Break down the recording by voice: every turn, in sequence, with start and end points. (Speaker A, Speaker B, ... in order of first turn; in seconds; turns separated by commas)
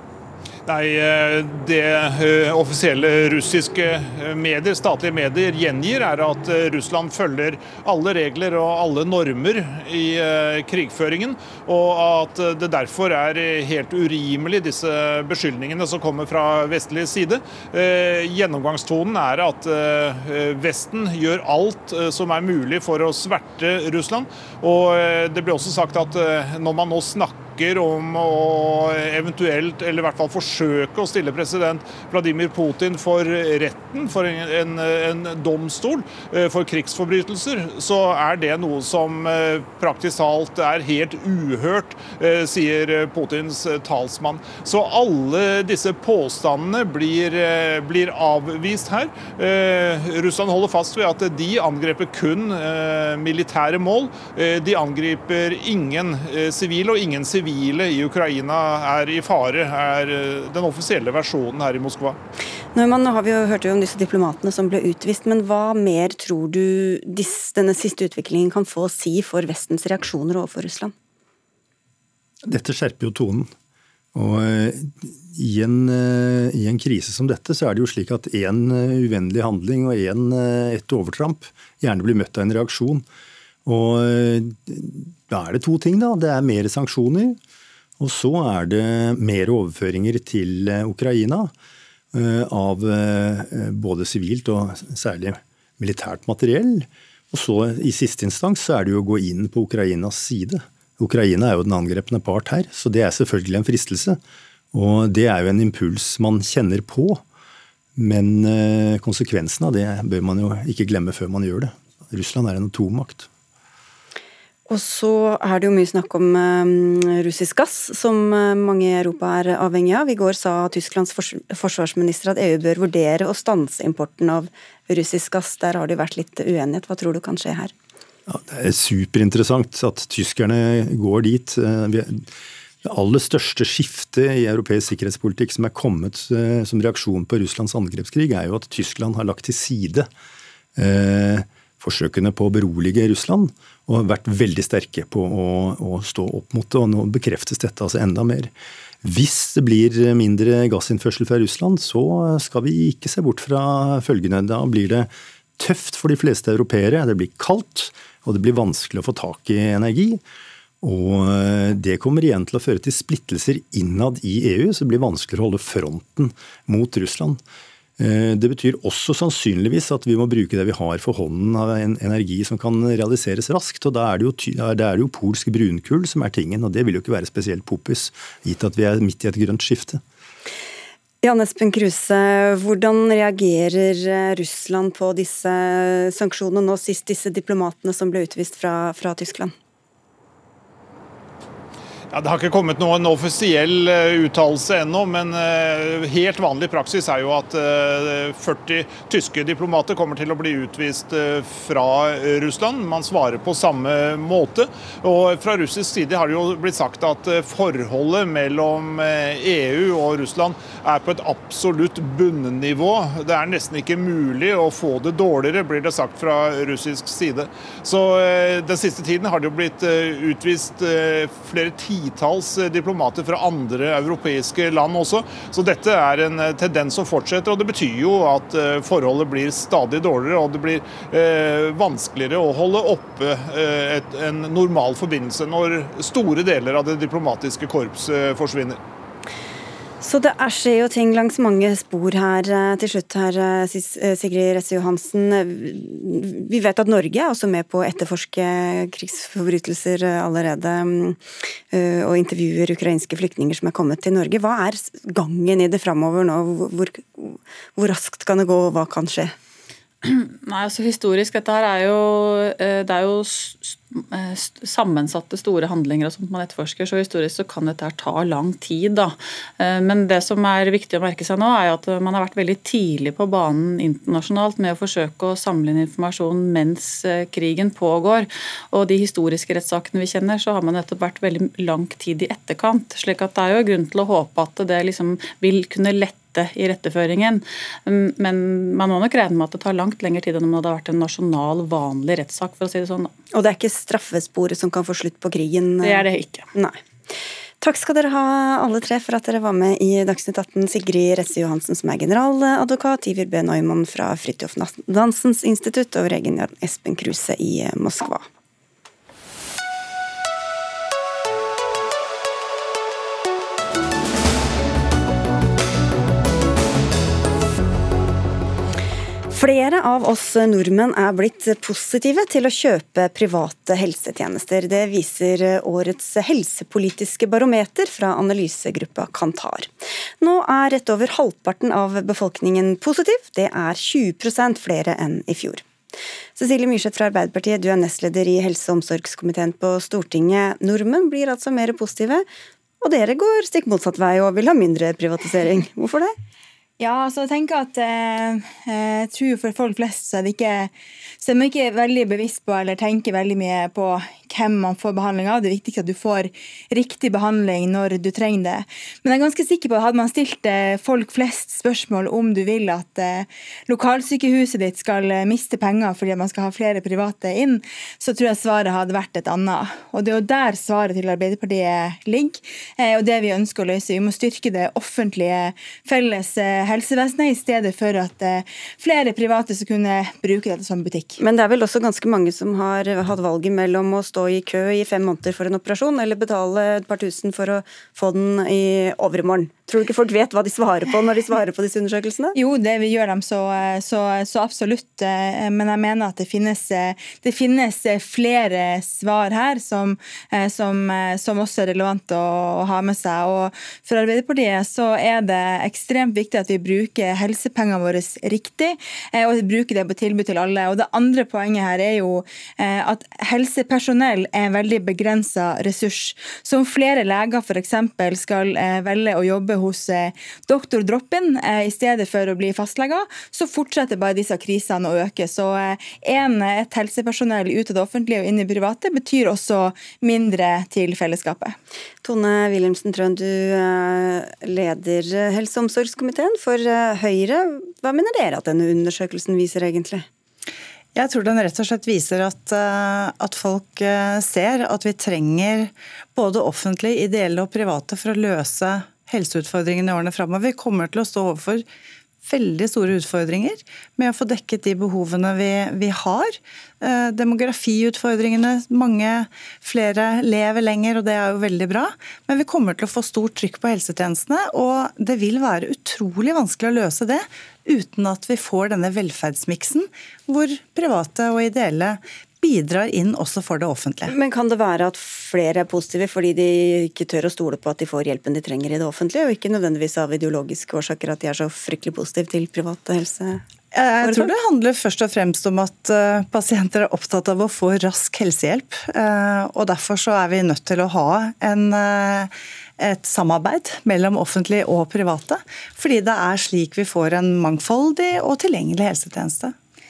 Speaker A: 0.7-62.2, Speaker B: 62.8-70.9, Speaker C: 72.5-73.5, Speaker C: 74.1-83.0, Speaker C: 83.7-87.4, Speaker C: 88.0-91.5, Speaker C: 92.1-104.2, Speaker C: 104.7-107.2, Speaker C: 108.0-113.3, Speaker B: 114.7-127.7, Speaker C: 128.3-132.3, Speaker C: 132.8-140.1, Speaker C: 140.8-148.5, Speaker C: 149.0-160.2, Speaker C: 160.8-167.4, Speaker C: 168.0-180.0, Speaker B: 181.2-189.5, Speaker A: 192.1-238.8, Speaker B: 240.0-259.3, Speaker D: 260.0-293.1, Speaker B: 293.3-296.8, Speaker D: 295.8-296.5, Speaker B: 297.6-308.3, Speaker B: 319.3-329.7, Speaker B: 330.2-335.6, Speaker B: 336.4-342.3, Speaker B: 342.8-346.1, Speaker E: 346.8-381.2, Speaker B: 381.2-392.4, Speaker E: 392.4-431.6, Speaker B: 432.0-440.1, Speaker F: 440.9-451.7, Speaker F: 452.2-474.1, Speaker B: 474.1-483.4, Speaker F: 483.7-499.5, Speaker B: 484.0-484.3